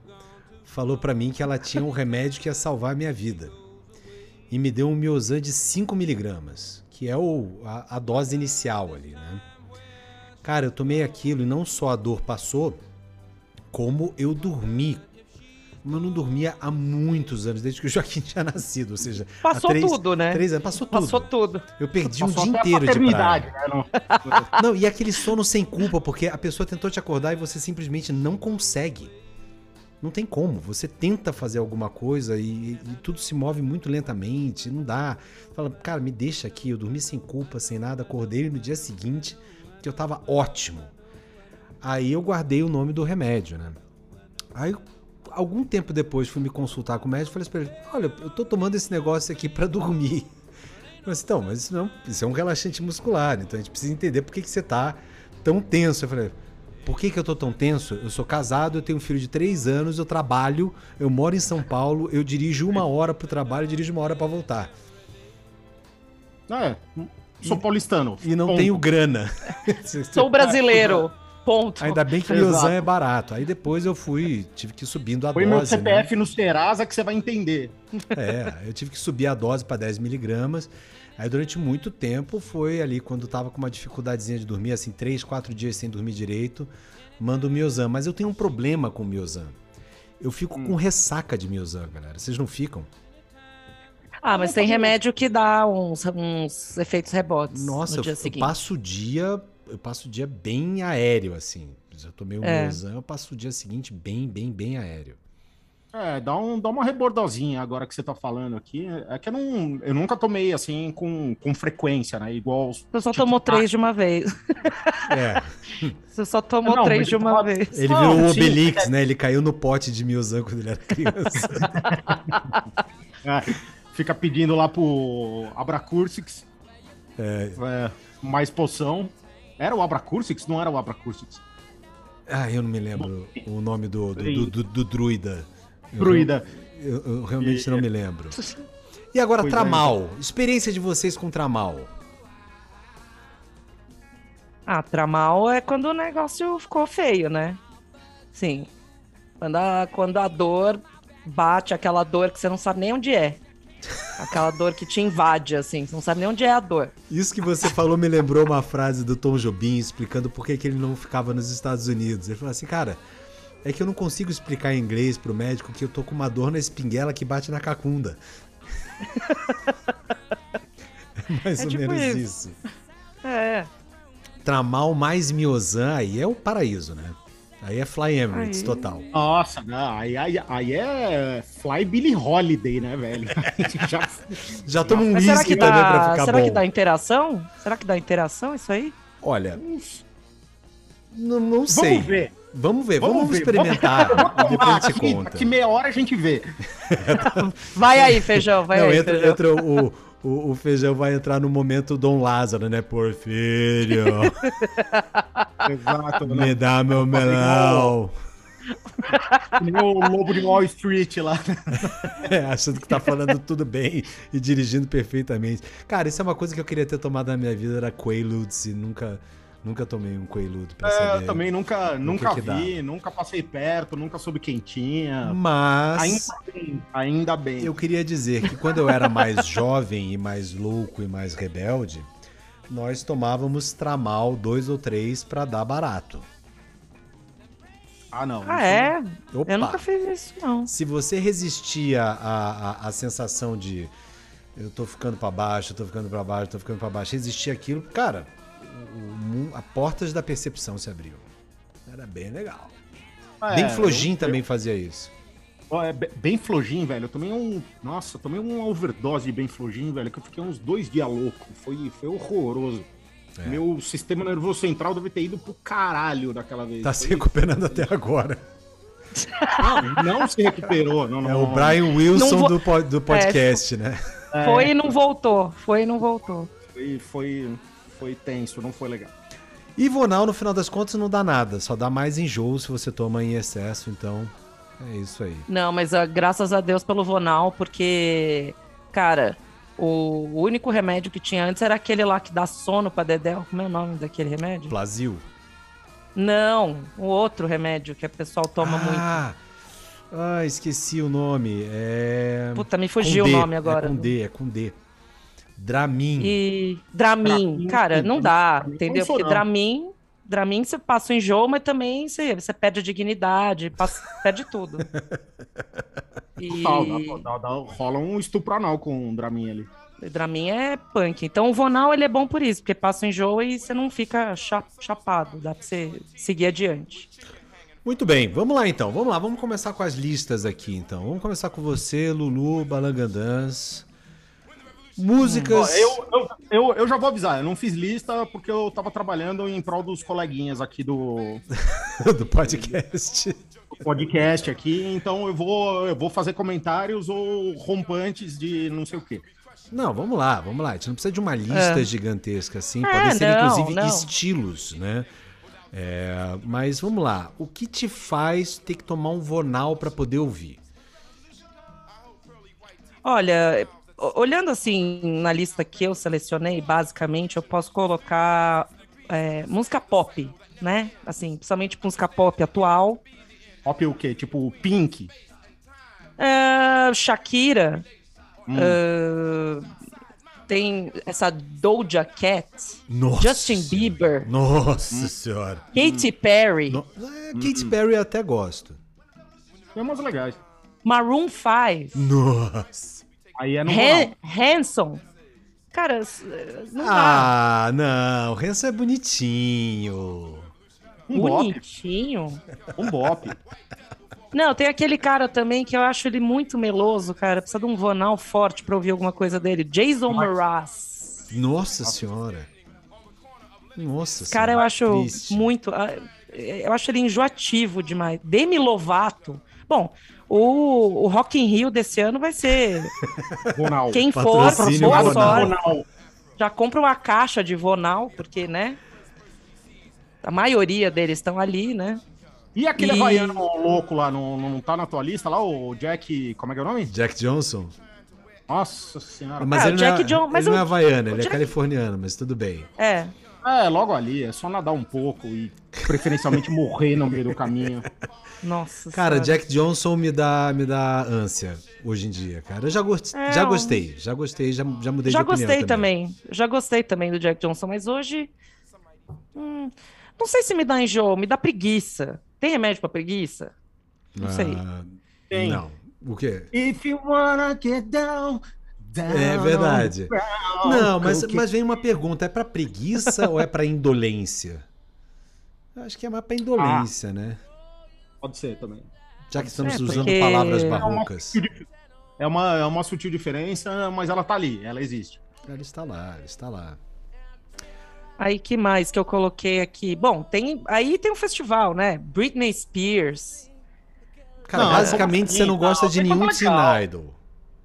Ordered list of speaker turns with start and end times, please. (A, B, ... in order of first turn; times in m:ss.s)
0:00.6-0:03.6 A
0:04.5-0:09.4 A
0:10.4-0:12.8 A
0:13.7-0:15.0 A
0:15.8-0:23.5 A
0:19.4-0:21.6 B
0:22.2-0:24.5 C
0:24.0-0:24.4 B
0:24.5-0:29.1 A
0:30.0-0:40.9 A
0:41.8-0:43.8 A
0:44.5-0:50.3 A
0:51.0-1:04.7 A
1:06.5-1:08.8 C
1:08.2-1:10.4 A
1:10.1-1:12.1 B
1:10.4-1:11.0 C
1:11.8-1:16.1 A
1:12.3-1:12.8 C
1:15.3-1:17.7 C
1:18.1-1:29.6 A
1:30.2-1:32.9 A
1:34.2-1:38.5 B
1:34.3-1:35.0 C
1:37.5-1:45.2 A
1:42.4-1:42.8 B
1:45.9-1:53.6 C
1:52.9-1:55.1 B
1:55.1-1:56.0 A
1:56.1-1:58.6 B
1:56.6-1:58.8 C
1:57.7-2:01.9 A
2:01.8-2:02.4 C
2:03.2-2:06.4 C
2:07.2-2:07.6 A
2:07.6-2:11.4 C
2:12.3-2:18.4 A
2:14.2-2:14.5 C
2:16.0-2:16.5 C
2:17.4-2:18.5 C
2:19.1-2:21.9 A
2:19.4-2:19.9 C
2:24.7-2:27.6 B
2:28.3-2:28.7 B
2:29.4-2:33.4 B
2:34.2-2:36.9 B
2:37.1-2:43.0 A
2:43.6-2:48.2 A
2:49.2-2:49.7 B
2:51.2-2:52.6 A
2:51.6-2:52.2 B
2:53.2-2:53.7 B
2:54.4-2:59.0 A
2:58.3-2:59.0 B
2:59.1-3:05.7 C
3:04.6-3:06.6 A
3:05.0-3:08.9 B
3:09.2-3:09.6 A
3:09.6-3:10.0 C
3:11.1-3:15.5 A
3:11.7-3:12.3 C
3:13.0-3:16.5 C
3:16.8-3:24.4 A
3:17.4-3:19.4 B
3:24.4-3:25.6 B
3:25.6-3:27.9 C
3:26.2-3:28.1 A
3:29.1-3:29.6 B
3:29.6-3:32.2 C
3:31.8-3:41.4 A
3:40.8-3:45.4 C
3:42.0-3:42.7 A
3:45.2-3:46.3 A
3:46.0-3:47.7 C
3:47.6-3:52.1 A
3:52.7-3:56.3 A
3:58.1-3:58.9 C
3:58.4-4:00.7 B
3:59.3-3:59.8 A
4:00.6-4:03.9 A
4:04.6-4:11.3 A
4:11.8-4:12.8 A
4:13.4-4:14.4 C
4:13.5-4:15.1 A
4:15.7-4:22.9 C
4:23.4-4:27.2 C
4:26.8-4:28.4 A
4:29.2-4:29.9 B
4:29.6-4:31.8 C
4:31.2-4:34.0 A
4:32.1-4:33.6 B
4:34.3-4:34.8 C
4:34.4-4:36.5 B
4:36.7-4:39.1 C
4:39.8-4:45.5 A
4:45.5-4:54.7 B
4:54.7-4:55.2 A
4:56.1-4:59.2 B
4:58.6-4:59.4 A
5:00.1-5:04.8 A
5:02.5-5:04.1 B
5:05.6-5:06.4 A
5:06.2-5:14.9 B
5:07.2-5:09.4 C
5:16.4-5:17.2 B
5:16.5-5:19.7 C
5:20.0-5:27.0 B
5:27.8-5:33.8 A
5:35.0-5:36.0 A
5:35.2-5:35.5 B
5:35.5-5:41.4 C
5:41.6-5:43.4 A
5:42.4-5:42.8 C
5:43.8-5:49.2 C
5:44.2-5:44.4 A
5:49.7-5:55.1 A
5:51.5-5:51.9 B
5:52.8-5:54.1 B
5:55.7-6:00.6 A
6:03.0-6:13.0 B
6:13.6-6:15.1 C
6:16.2-6:17.8 B
6:18.5-6:18.8 C
6:18.5-6:19.7 B
6:20.5-6:24.3 B
6:22.9-6:25.7 A
6:25.7-6:26.8 B
6:25.7-6:26.1 C
6:26.7-6:28.8 A
6:27.3-6:27.7 C
6:29.7-6:30.4 C
6:30.8-6:32.0 B
6:31.9-6:33.0 A
6:33.4-6:34.1 C
6:33.6-6:35.0 B
6:35.7-6:37.3 B
6:36.8-6:40.5 A
6:41.1-6:41.6 C
6:41.1-6:42.4 B
6:42.8-6:43.3 C
6:44.3-6:51.2 B
6:51.3-6:52.5 A
6:53.8-6:55.5 A
6:54.3-7:02.9 B
7:03.2-7:03.5 A
7:03.5-7:05.8 C
7:03.9-7:05.5 B
7:04.1-7:05.6 A
7:06.4-7:08.8 B
7:10.2-7:12.0 B
7:12.6-7:16.9 C
7:12.8-7:13.4 B
7:16.9-7:17.7 A
7:18.5-7:19.5 C
7:19.4-7:22.7 A
7:19.5-7:21.5 B
7:22.8-7:23.1 B
7:23.4-7:27.9 C
7:28.4-7:29.4 B
7:28.9-7:35.9 A
7:33.1-7:33.8 B
7:35.0-7:38.3 B
7:39.4-7:43.5 B
7:44.2-7:46.5 A
7:44.2-7:44.6 B
7:45.3-7:45.6 C
7:46.5-7:51.4 C
7:49.1-7:54.7 A
7:55.8-7:57.4 A
7:56.6-7:56.9 C
7:58.2-7:58.9 C
7:59.3-8:01.4 A
7:59.4-8:00.1 C
7:59.6-8:00.8 B
8:00.7-8:01.6 C
8:02.2-8:05.2 C
8:05.4-8:06.8 A
8:08.2-8:13.5 B
8:14.4-8:17.2 A
8:14.5-8:16.8 C
8:14.6-8:15.0 B